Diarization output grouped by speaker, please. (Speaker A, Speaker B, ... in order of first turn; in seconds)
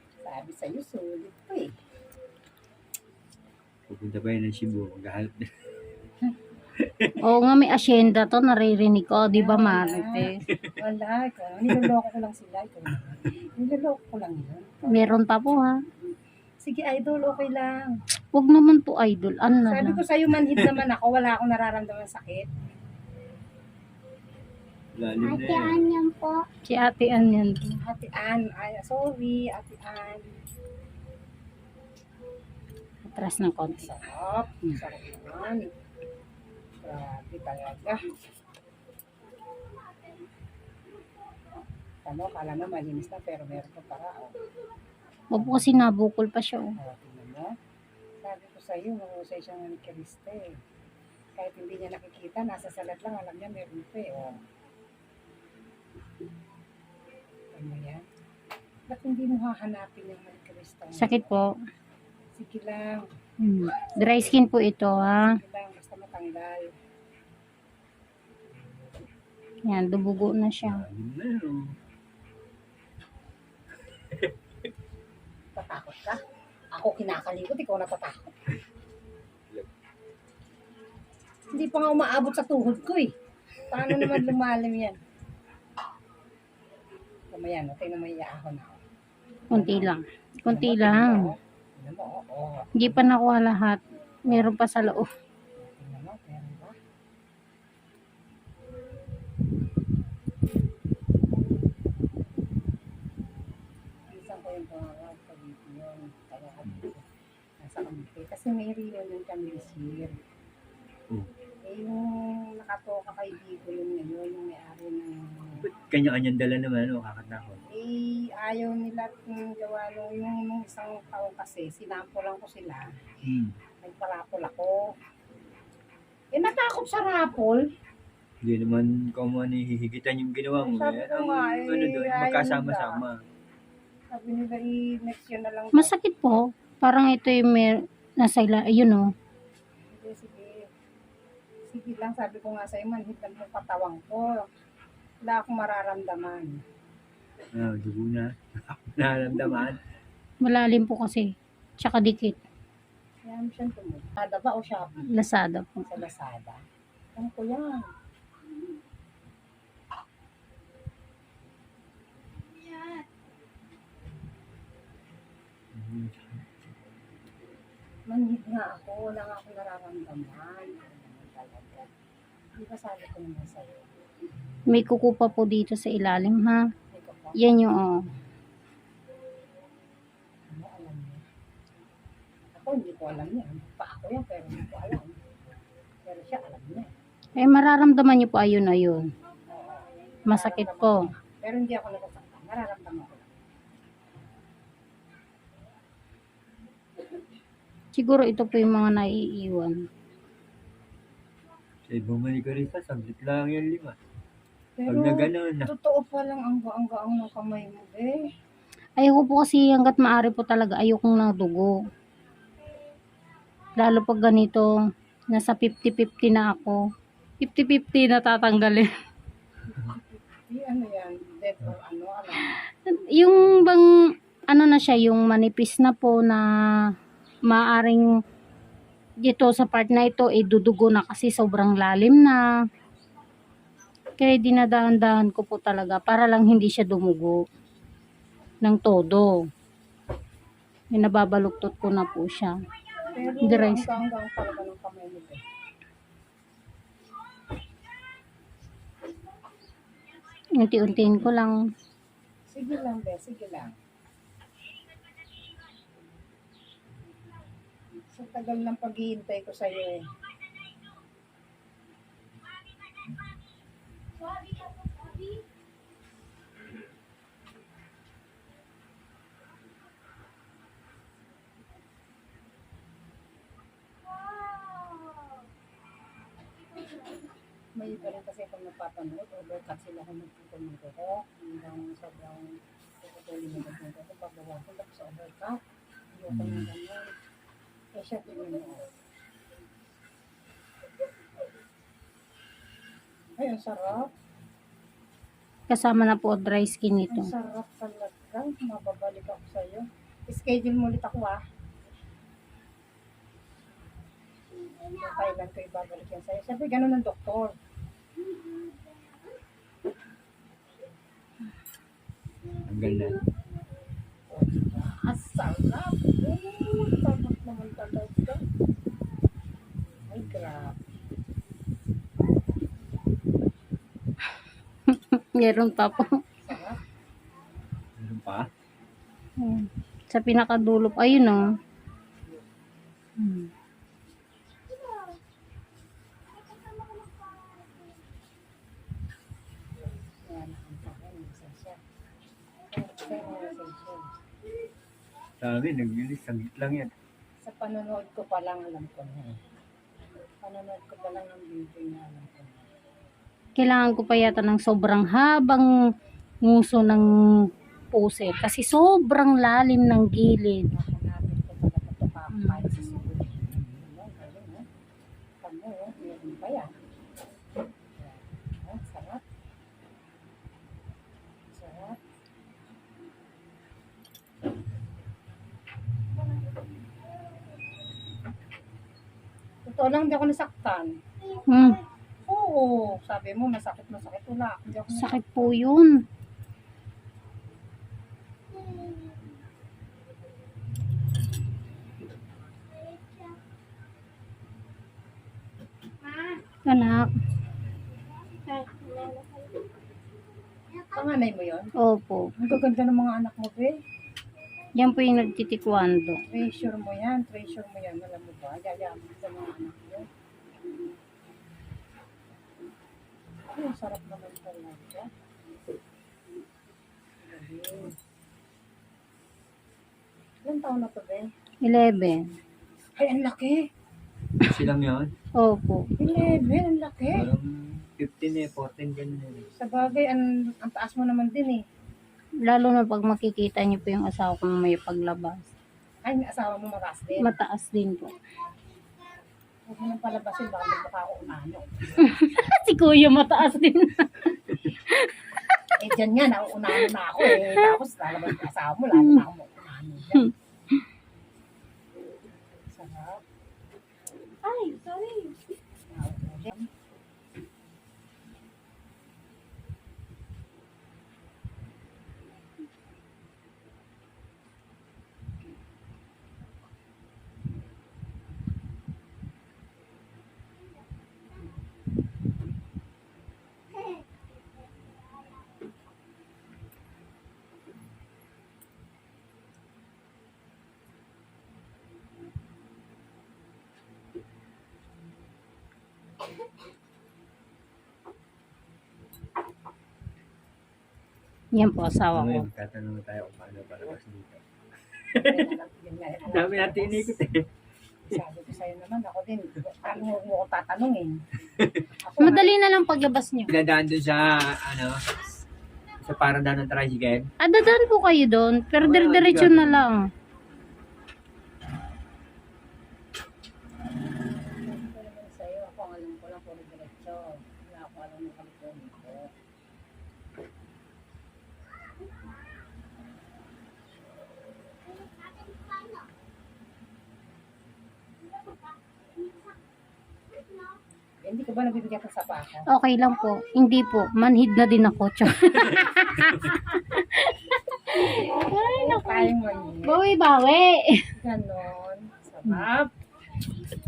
Speaker A: 0.2-1.7, 9.1-15.3, 16.6-17.9, 19.6-22.5, 27.6-30.3, 33.8-35.6, 36.8-38.0, 42.0-44.4, 45.3-45.9, 46.8-47.5, 48.2-50.6, 51.4-54.4, 57.5-58.0, 58.9-61.4, 62.3-63.0, 64.9-66.7, 75.5-76.2, 76.7-78.2, 81.5-83.1, 83.7-85.0, 87.3-88.8, 89.5-89.9, 90.5-93.1, 94.3-94.5, 95.6-96.8, 104.1-107.0, 107.6-110.1, 111.6-115.6, 117.7-122.9, 123.8-124.8, 126.3-127.6, 130.6-133.0, 134.1-135.9, 139.8-140.7, 141.7-144.5, 145.2-146.6, 153.2-155.2, 155.8-156.6, 157.2-157.9, 168.1-171.9, 172.5-173.9, 176.9-177.5, 180.5-181.2, 182.5-185.2, 186.1-186.9, 189.5-193.3, 204.8-208.3, 219.7-222.4, 243.1-245.4, 252.5-253.7, 258.1-260.1, 277.7-285.6, 286.1-287.1, 287.9-288.9, 293.4-294.1, 297.1-301.4, 304.8-307.5, 314.3-318.4, 320.1-320.8, 326.4-326.8, 340.2-341.8, 342.7-344.1, 347.4-349.4, 350.4-352.7, 360.7-364.6, 365.4-366.7, 367.9-369.2, 371.5-372.0, 379.6-380.9, 382.3-385.6, 400.9-401.7, 402.4-403.7, 406.3-410.1, 413.5-415.1, 417.2-417.9, 420.4-421.2, 423.0-423.6, 425.9-427.3, 429.5-431.6, 436.0-437.4, 439.6-442.6, 445.8-450.3, 452.7-453.2, 455.9-456.7, 495.2-497.2, 498.1-501.1, 502.0-502.5, 514.5-519.3, 531.2-532.7, 538.7-540.0, 541.1-542.9
Speaker B: 3.9-5.5, 6.8-7.2, 24.9-25.9, 70.6-71.7, 83.8-84.3, 115.5-117.6, 123.2-123.5, 128.4-133.2, 147.5-149.8, 165.7-166.4, 201.9-204.0, 204.9-205.7, 286.3-286.7, 312.6-313.2, 320.1-320.5, 328.0-328.5, 345.4-346.9, 424.4-425.1, 427.1-429.5, 492.1-494.4, 495.0-495.5, 496.2-497.4, 501.6-501.8, 503.5-505.0, 506.0-507.3, 508.8-509.9
Speaker C: 7.2-10.3, 14.9-15.8, 18.3-20.0, 25.4-27.6, 33.0-33.9, 45.3-46.8, 60.9-61.5, 63.4-65.4, 69.7-70.8, 89.5-91.3, 92.8-95.1, 135.7-139.1, 150.4-152.4, 155.1-155.8, 174.7-176.6, 177.3-178.0, 187.4-189.1, 190.3-191.1, 197.9-199.9, 209.0-211.7, 213.8-214.7, 215.3-216.8, 217.4-218.9, 222.3-223.9, 224.5-226.9, 227.5-228.1, 229.2-232.4, 234.2-237.4, 238.6-239.3, 240.9-242.5, 243.4-243.9, 250.4-251.6, 295.7-297.3, 308.4-308.8, 324.9-326.2, 329.4-331.5, 333.2-333.5, 353.6-355.7, 356.4-360.7, 362.3-362.7, 381.4-381.8, 384.9-386.0, 388.6-389.1, 396.1-397.1, 398.4-399.5, 401.8-402.3, 404.8-406.2, 421.6-422.2, 425.4-425.9, 432.4-435.5, 437.2-438.1, 442.0-445.6, 447.2-447.8, 448.9-449.2, 450.2-450.8, 454.4-455.4, 491.5-492.4, 502.2-503.5, 507.4-510.1, 532.6-541.1